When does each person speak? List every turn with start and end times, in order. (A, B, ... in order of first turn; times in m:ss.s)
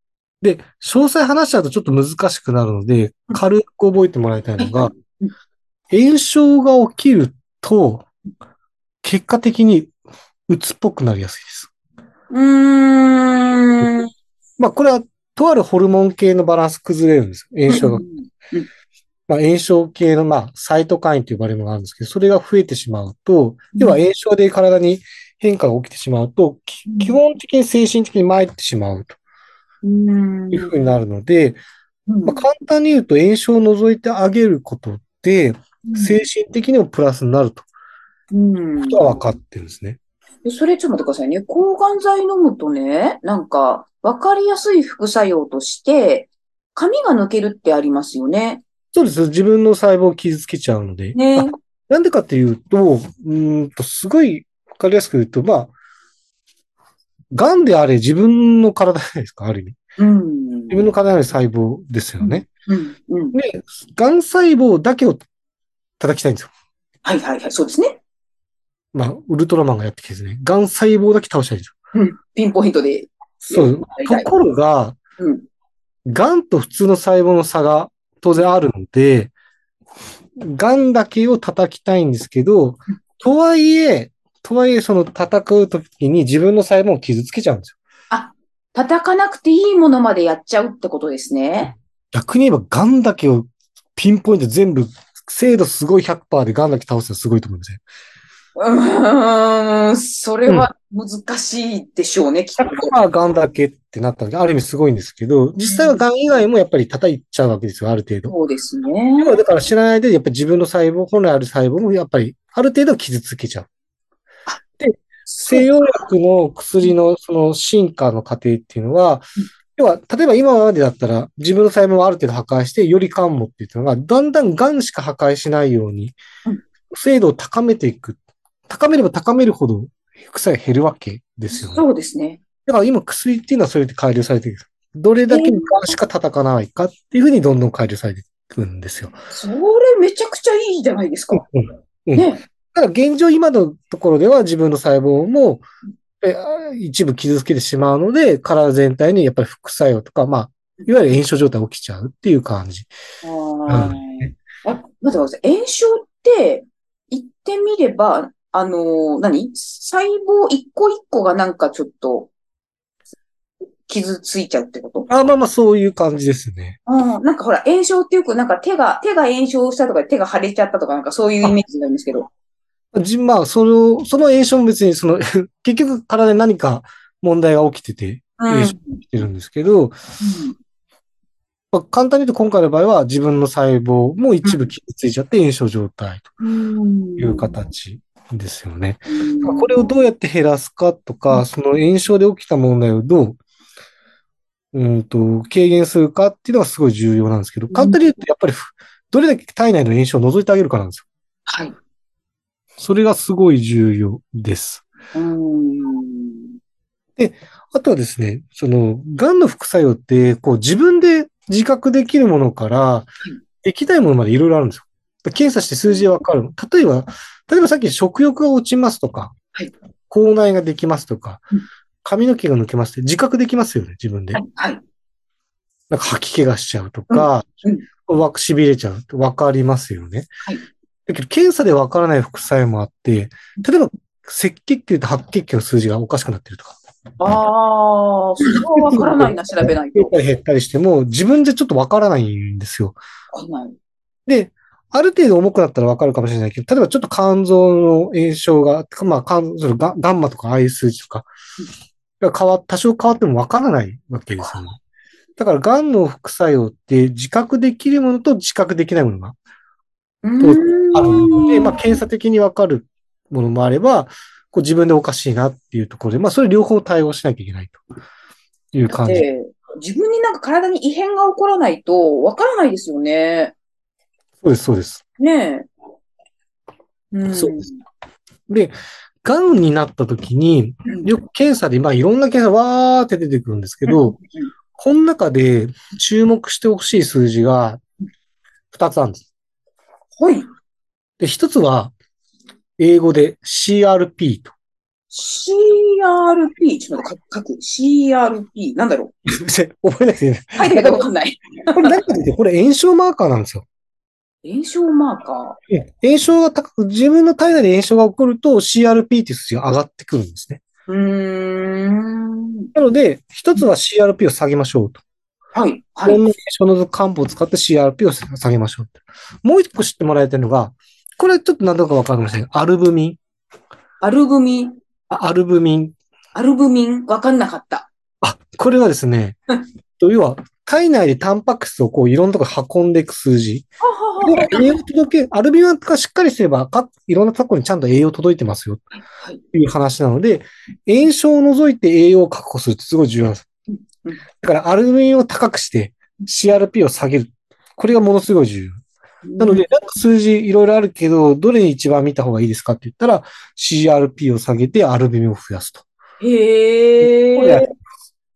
0:00.4-0:04.9 A
0:04.6-0:05.3 B
0:05.9-0:08.1 A
0:09.0-0:09.9 A
0:10.5-0:11.7 A
0:12.3-0:14.1 B
0:14.6-0:18.0 A
0:17.7-0:18.7 B
0:19.3-0:29.2 A
0:26.9-0:27.2 B
0:29.8-0:30.7 B
0:30.5-0:31.6 A
0:32.1-0:32.4 B
0:32.2-0:37.7 A
0:35.9-0:36.2 B
0:38.3-0:39.2 B
0:38.8-0:40.0 A
0:40.4-0:48.6 B
0:48.9-0:55.7 A
0:51.1-0:51.5 B
0:57.3-0:59.8 A
1:00.0-1:00.8 B
1:00.7-1:02.5 A
1:02.2-1:03.4 B
1:03.3-1:05.2 A
1:06.0-1:06.5 A
1:07.0-1:08.0 B
1:08.9-1:11.7 A
1:11.9-1:14.3 B
1:13.4-1:15.0 A
1:15.2-1:15.4 B
1:16.0-1:19.3 A
1:20.4-1:27.8 A
1:28.1-1:31.7 B
1:32.1-1:37.8 A
1:38.6-1:42.9 B
1:42.6-1:48.3 A
1:45.6-1:46.0 B
1:48.3-1:49.4 B
1:49.2-1:53.7 A
1:54.8-2:06.2 A
1:55.3-1:55.7 B
2:06.9-2:11.8 A
2:11.5-2:12.4 B
2:12.6-2:19.1 A
2:15.3-2:16.0 B
2:19.3-2:21.4 B
2:21.3-2:25.6 A
2:22.1-2:22.4 B
2:26.2-2:32.9 A
2:33.2-2:42.3 B
2:33.7-2:34.3 A
2:43.8-2:45.1 B
2:45.1-2:46.8 A
2:46.9-2:52.3 B
2:52.9-3:00.0 A
2:58.4-2:59.0 B
3:00.2-3:00.5 B
3:01.7-3:06.3 A
3:04.4-3:04.7 B
3:06.4-3:07.6 B
3:07.2-3:13.4 A
3:09.1-3:09.7 B
3:14.7-3:21.0 A
3:17.7-3:18.0 B
3:21.5-3:21.7 B
3:22.8-3:24.8 A
3:25.1-3:26.6 B
3:27.2-3:33.1 A
3:33.6-3:39.3 A
3:40.1-3:41.4 A
3:42.0-3:44.4 A
3:44.3-3:44.8 B
3:45.9-3:50.3 A
3:47.1-3:47.8 B
3:51.1-3:56.8 A
3:57.2-4:00.2 B
3:58.4-4:03.0 A
4:03.3-4:03.7 B
4:04.3-4:11.3 A
4:12.2-4:14.8 A
4:15.4-4:19.4 A
4:20.2-4:21.8 B
4:20.4-4:27.8 A
4:28.7-4:29.2 A
4:28.9-4:33.5 B
4:34.4-4:35.0 A
4:35.2-4:35.7 B
4:37.1-4:37.8 B
4:37.3-4:37.6 A
4:38.5-4:44.2 A
4:40.8-4:41.1 B
4:43.9-4:44.5 B
4:44.8-4:47.8 A
4:48.7-4:49.3 A
4:50.2-4:50.5 B
4:51.2-4:51.9 A
4:52.8-4:54.5 A
4:55.1-4:59.1 B
4:59.3-5:01.1 A
5:00.6-5:01.9 B
5:01.7-5:03.6 A
5:04.4-5:05.6 B
5:05.7-5:10.6 A
5:10.9-5:12.7 B
5:12.7-5:15.0 A
5:15.5-5:16.2 B
5:16.0-5:23.2 A
5:24.0-5:24.7 B
5:25.1-5:26.0 A
5:26.3-5:27.9 B
5:28.2-5:29.4 A
5:30.0-5:33.7 A
5:33.8-5:34.7 B
5:34.2-5:38.8 A
5:39.5-5:43.4 A
5:43.7-5:44.2 B
5:44.4-5:48.8 A
5:49.2-5:49.6 B
5:49.4-5:55.8 A
5:56.2-5:57.6 B
5:57.0-5:57.7 A